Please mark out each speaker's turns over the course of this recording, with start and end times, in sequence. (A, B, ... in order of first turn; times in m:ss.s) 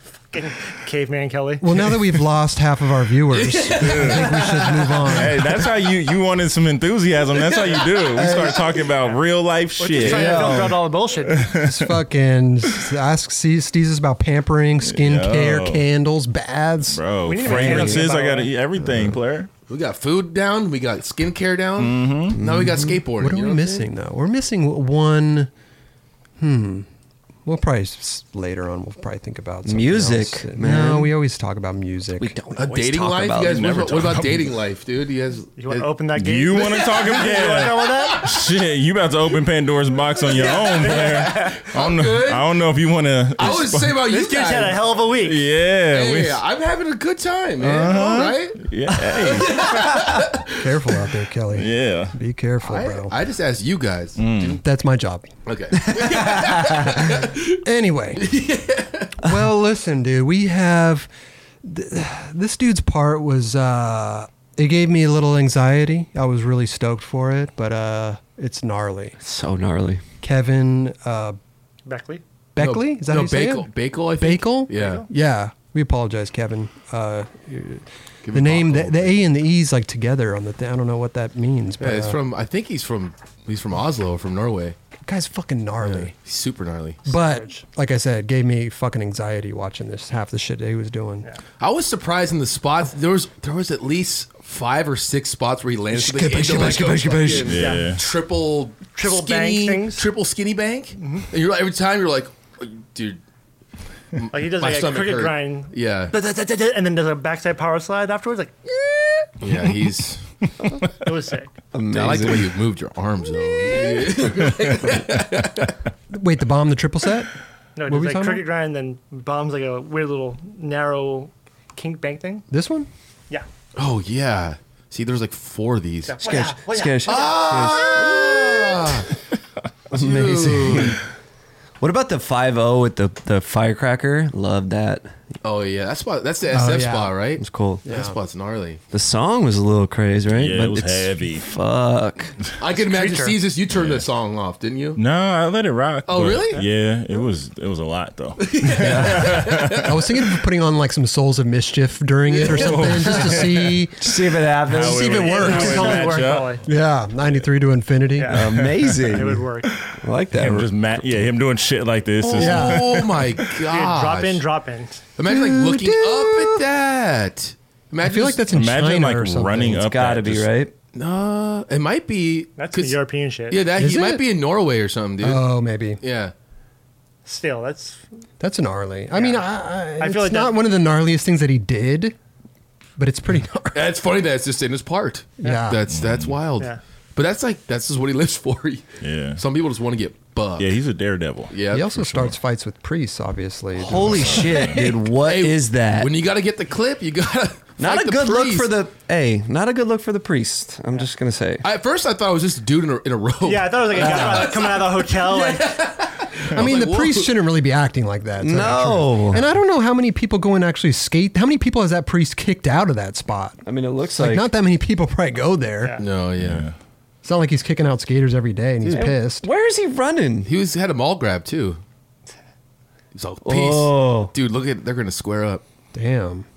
0:00.3-0:01.6 A
0:01.6-0:05.5 B
0:03.4-0:04.2 C
0:03.8-0:04.4 D
0:05.0-0:10.7 D
0:07.4-0:08.3 C
0:08.1-0:08.6 E
0:09.8-0:11.5 A
0:10.0-0:10.8 E
0:11.2-0:12.0 D
0:11.6-0:17.0 B
0:14.8-0:15.8 D
0:16.9-0:19.5 D
0:17.2-0:18.5 A
0:17.4-0:18.0 E
0:18.8-0:19.2 C
0:19.7-0:23.8 C
0:21.8-0:22.4 D
0:22.3-0:23.0 E
0:23.2-0:25.5 B
0:26.4-0:26.9 B
0:27.4-0:32.3 B
0:29.6-0:31.2 E
0:32.2-0:34.2 E
0:32.6-0:35.9 C
0:33.4-0:34.5 D
0:35.6-0:38.3 A
0:36.2-0:44.0 D
0:36.7-0:38.2 C
0:40.2-0:42.6 C
0:40.4-0:41.5 A
0:43.4-0:44.9 C
0:44.0-0:45.5 A
0:45.2-0:46.4 D
0:45.9-0:48.6 C
0:47.6-0:50.0 D
0:49.1-0:50.6 C
0:50.6-0:53.1 B
0:51.5-0:52.1 D
0:52.6-0:54.6 C
0:54.2-0:54.6 D
0:54.6-0:55.3 B
0:55.4-0:57.6 C
0:55.9-0:56.9 E
0:57.5-0:58.3 B
0:58.2-0:59.1 C
0:59.2-1:01.1 B
1:01.6-1:09.2 B
1:09.2-1:10.0 E
1:10.2-1:11.4 B
1:11.8-1:12.2 A
1:12.6-1:22.2 B
1:12.6-1:15.0 C
1:14.7-1:15.1 A
1:18.2-1:19.2 C
1:21.8-1:24.8 C
1:25.0-1:26.1 B
1:25.8-1:27.0 C
1:27.0-1:27.6 A
1:27.0-1:31.3 B
1:31.6-1:43.2 C
1:35.9-1:37.5 B
1:37.5-1:38.0 D
1:37.5-1:38.0 A
1:38.9-1:40.0 A
1:41.0-1:41.3 A
1:44.2-1:46.2 C
1:44.3-1:49.3 A
1:49.4-1:50.2 C
1:51.0-1:51.5 A
1:51.7-1:52.6 E
1:51.9-1:55.7 C
1:56.1-1:57.3 B
1:57.8-2:02.4 A
1:57.9-1:58.4 B
2:02.5-2:02.9 B
2:03.8-2:06.3 C
2:06.0-2:07.8 A
2:06.2-2:08.9 E
2:07.0-2:09.1 C
2:09.9-2:11.0 C
2:09.9-2:11.0 E
2:11.8-2:15.1 E
2:15.4-2:18.8 C
2:16.5-2:17.2 B
2:17.4-2:17.8 E
2:17.8-2:18.2 B
2:18.9-2:22.3 E
2:20.3-2:21.5 D
2:22.6-2:25.0 C
2:22.8-2:23.4 A
2:23.7-2:24.0 D
2:25.0-2:30.0 D
2:26.0-2:26.6 C
2:28.4-2:29.9 C
2:28.7-2:29.4 E
2:29.8-2:38.4 B
2:32.3-2:33.5 C
2:32.4-2:33.8 D
2:34.0-2:35.2 E
2:34.6-2:36.6 D
2:35.0-2:36.6 A
2:38.2-2:39.8 A
2:38.3-2:41.0 E
2:38.8-2:39.2 D
2:40.3-2:43.6 D
2:42.2-2:44.4 C
2:42.4-2:42.9 B
2:43.7-2:45.0 A
2:45.2-2:48.4 C
2:45.2-2:46.6 E
2:48.0-2:49.8 B
2:48.5-2:50.5 D
2:49.7-2:50.7 E
2:50.9-2:53.0 C
2:52.6-2:53.6 A
2:53.5-2:55.4 C
2:53.8-2:54.2 B
2:55.2-2:56.0 B
2:56.0-2:56.3 C
2:57.2-2:58.0 A
2:58.4-3:02.2 B
2:59.1-2:59.5 A
3:00.0-3:00.6 A
3:03.0-3:03.9 B
3:03.7-3:10.8 C
3:05.4-3:05.8 B
3:05.9-3:06.4 D
3:09.0-3:09.4 D
3:10.6-3:12.3 D
3:11.5-3:11.9 C
3:11.7-3:14.5 B
3:13.7-3:16.1 E
3:14.7-3:18.7 C
3:17.8-3:21.7 E
3:21.6-3:27.4 C
3:23.4-3:25.9 A
3:23.9-3:24.5 E
3:26.5-3:33.6 B
3:28.4-3:29.4 E
3:33.6-3:34.5 E
3:34.1-3:36.0 B
3:35.8-3:36.1 A
3:36.0-3:36.6 C
3:36.4-3:36.7 D
3:37.2-3:39.5 B
3:38.8-3:40.5 E
3:40.4-3:41.8 C
3:43.1-3:45.6 C
3:43.4-3:44.3 E
3:45.9-3:46.5 B